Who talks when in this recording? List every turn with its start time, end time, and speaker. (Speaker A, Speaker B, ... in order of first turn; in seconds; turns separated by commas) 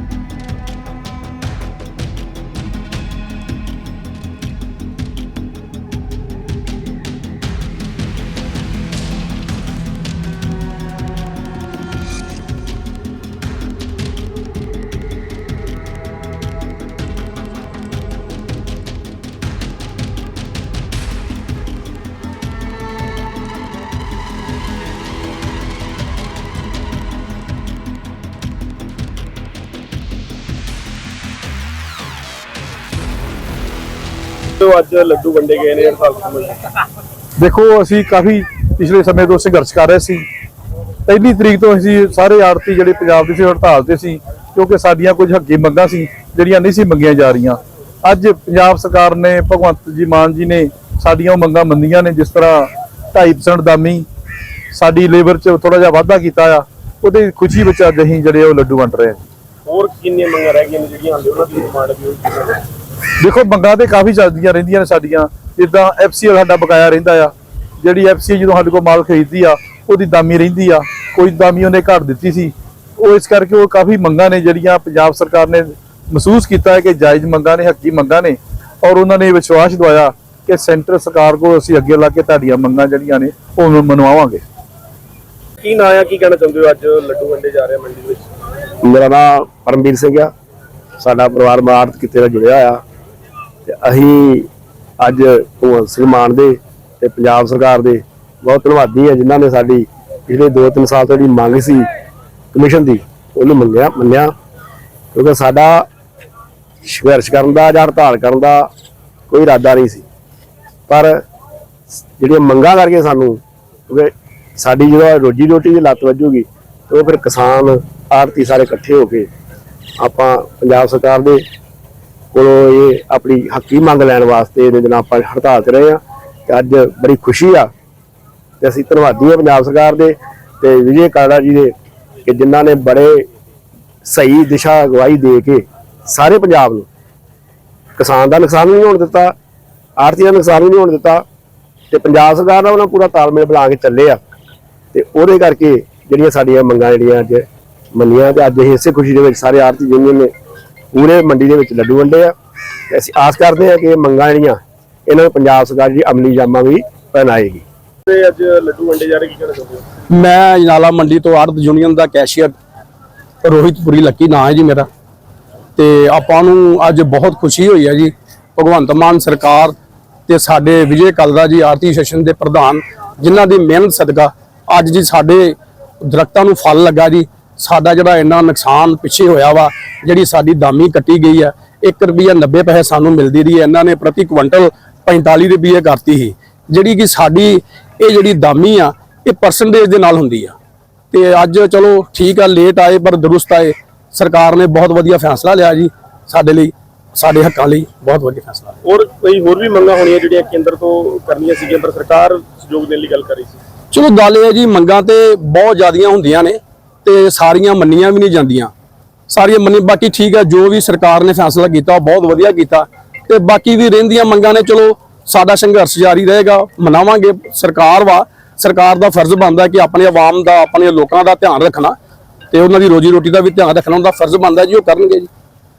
Speaker A: 34.6-36.6, Speaker B: 37.4-40.2, Speaker B: 41.0-54.0, Speaker B: 54.7-59.2, Speaker A: 59.7-62.6, Speaker B: 63.2-84.4, Speaker A: 85.6-88.3, Speaker C: 88.8-90.3, Speaker C: 91.0-92.8, Speaker C: 93.7-94.5, Speaker C: 95.0-101.8, Speaker C: 102.5-104.3, Speaker C: 105.1-105.8, Speaker C: 106.8-108.7, Speaker C: 109.3-110.0, Speaker C: 110.9-111.2, Speaker C: 112.2-119.3, Speaker C: 120.0-121.4, Speaker C: 122.3-127.7, Speaker C: 128.6-131.7, Speaker C: 132.2-133.2, Speaker C: 134.0-136.9, Speaker C: 138.0-139.3, Speaker C: 140.0-141.2, Speaker C: 141.9-144.2, Speaker C: 144.9-150.3, Speaker C: 150.9-152.3, Speaker C: 152.9-157.6, Speaker A: 158.1-159.8, Speaker D: 160.1-162.5, Speaker D: 163.4-164.9, Speaker D: 165.8-169.7, Speaker D: 170.3-190.6, Speaker D: 191.1-198.8, Speaker A: 198.8-203.6, Speaker D: 203.9-208.7, Speaker D: 209.3-221.9, Speaker D: 222.5-225.3